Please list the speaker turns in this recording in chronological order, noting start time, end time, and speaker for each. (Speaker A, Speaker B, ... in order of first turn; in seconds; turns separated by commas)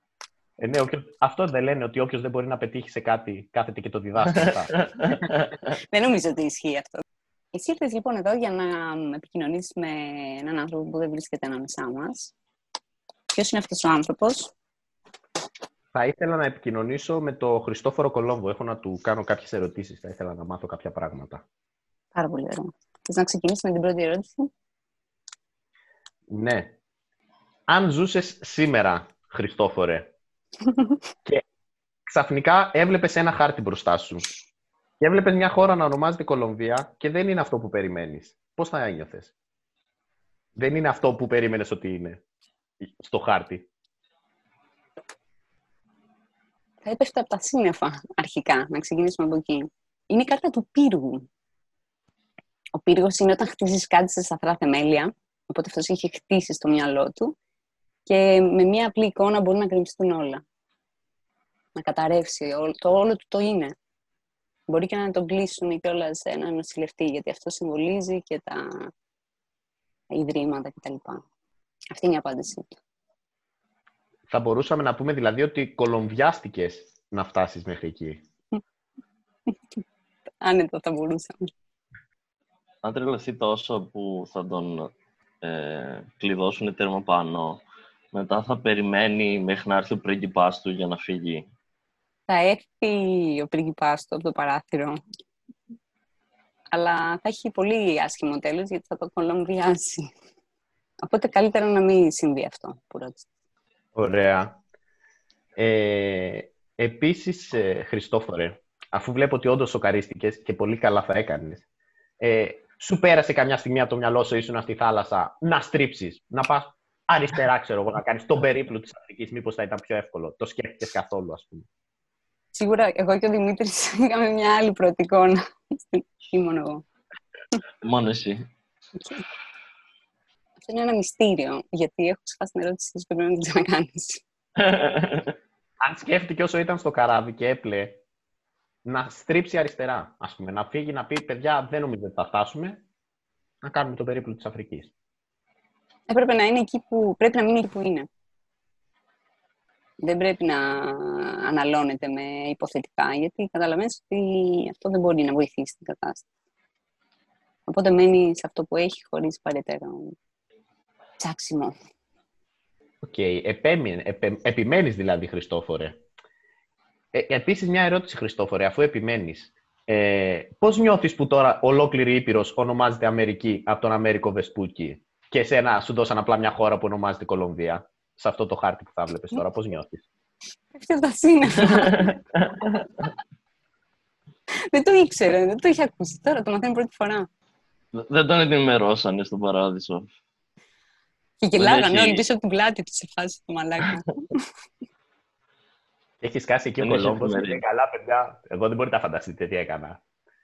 Speaker A: 0.6-5.3, Speaker B: 4.4-5.6, Speaker C: 5.9-7.0, Speaker C: 7.5-12.3, Speaker C: 13.3-14.5, Speaker A: 15.9-21.4, Speaker C: 22.1-24.5, Speaker A: 26.3-26.8, Speaker A: 27.7-30.1, Speaker C: 30.7-31.0, Speaker A: 32.1-34.3, Speaker A: 35.0-39.3, Speaker A: 40.6-42.2, Speaker A: 42.8-43.7, Speaker C: 46.8-51.2, Speaker C: 52.8-57.3, Speaker C: 58.1-60.4, Speaker C: 61.8-63.7, Speaker C: 64.7-68.9, Speaker C: 70.1-71.2, Speaker C: 71.9-72.8, Speaker A: 74.3-78.2, Speaker C: 80.4-81.5, Speaker B: 82.8-84.9, Speaker B: 85.4-91.5, Speaker C: 92.3-95.0, Speaker C: 96.7-100.1, Speaker C: 101.0-103.2, Speaker A: 104.0-104.6, Speaker A: 105.6-111.7, Speaker A: 112.2-121.7, Speaker C: 122.5-126.8, Speaker B: 127.8-128.4, Speaker C: 130.6-134.2, Speaker B: 134.6-135.3, Speaker A: 135.8-138.0, Speaker A: 138.8-142.8, Speaker A: 143.6-144.9, Speaker C: 146.1-148.1, Speaker C: 150.0-156.2, Speaker C: 157.7-160.2, Speaker C: 161.2-161.8, Speaker A: 163.0-166.0, Speaker A: 167.1-180.0, Speaker C: 180.8-182.1, Speaker B: 181.6-183.1, Speaker C: 184.7-187.3, Speaker B: 187.9-190.1, Speaker C: 191.4-194.4, Speaker B: 191.6-192.2, Speaker A: 196.2-200.0, Speaker B: 196.8-197.6